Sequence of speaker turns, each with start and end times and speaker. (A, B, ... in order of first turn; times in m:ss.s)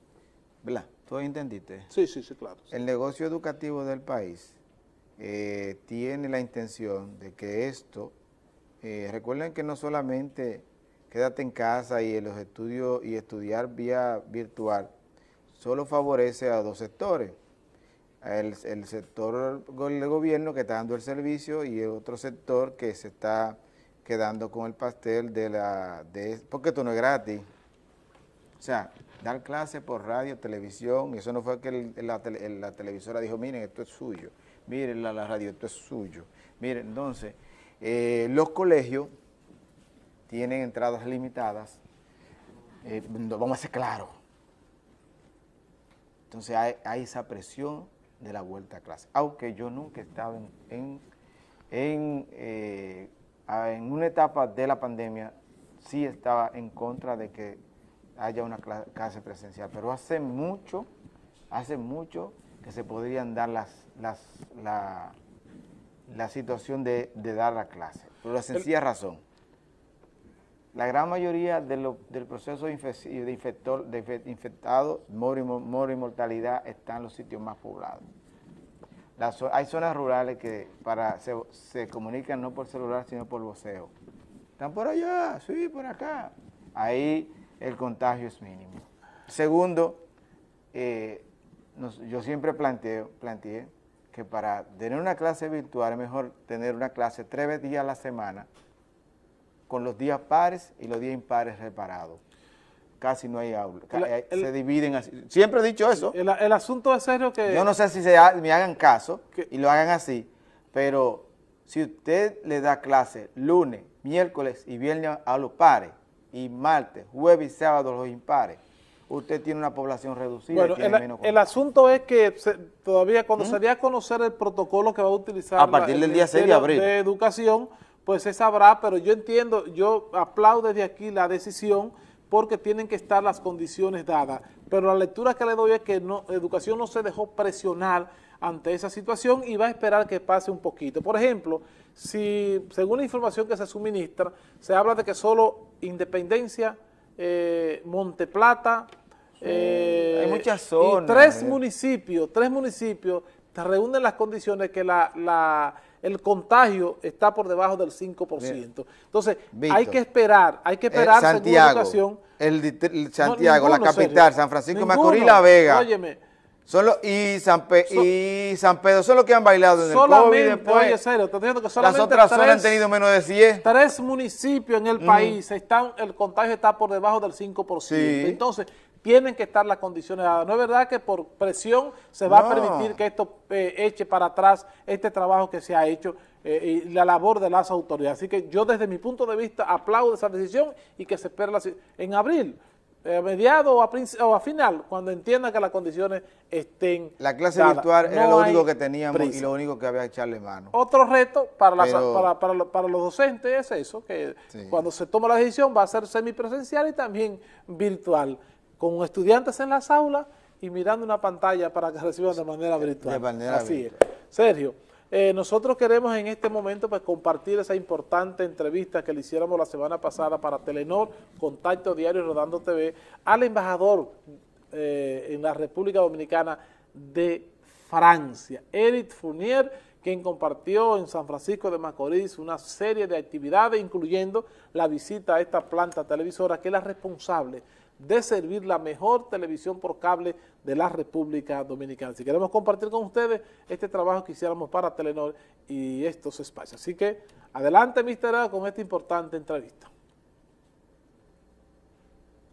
0:00.6-0:01.9 A
0:01.9-0:02.7 B
0:02.7-0:04.6 A
0:05.2-0:08.1 A
0:08.8-0:14.9 A
0:15.5-0:17.4 A
0:18.2-0:27.4 A
0:28.6-0:39.1 A
0:40.3-0:41.8 A
0:42.8-0:44.1 A
0:46.3-0:51.0 A
0:51.7-0:57.6 A
0:58.2-1:00.9 A
1:01.5-1:05.2 A
1:06.1-1:09.2 A
1:10.8-1:18.0 A
1:19.2-1:23.9 A
1:24.6-1:30.0 A
1:30.7-1:38.5 A
1:39.7-1:42.2 A
1:43.0-1:46.2 A
1:43.9-1:44.5 B
1:46.0-1:47.7 B
1:47.5-2:01.4 A
2:00.5-2:28.9 B
2:05.6-2:06.9 A
2:29.4-2:31.6 A
2:29.4-2:42.2 B
2:39.5-2:40.0 A
2:40.9-2:45.9 A
2:43.2-2:46.2 B
2:46.7-2:51.0 A
2:49.8-2:52.9 B
2:51.8-2:53.7 A
2:53.6-3:19.5 B
2:55.0-2:55.4 A
2:57.9-2:58.4 A
3:02.3-3:03.0 A
3:17.2-3:20.8 A
3:20.7-3:44.2 B
3:21.8-3:22.3 A
3:24.5-3:24.8 A
3:32.8-3:34.0 A
3:44.7-4:09.9 B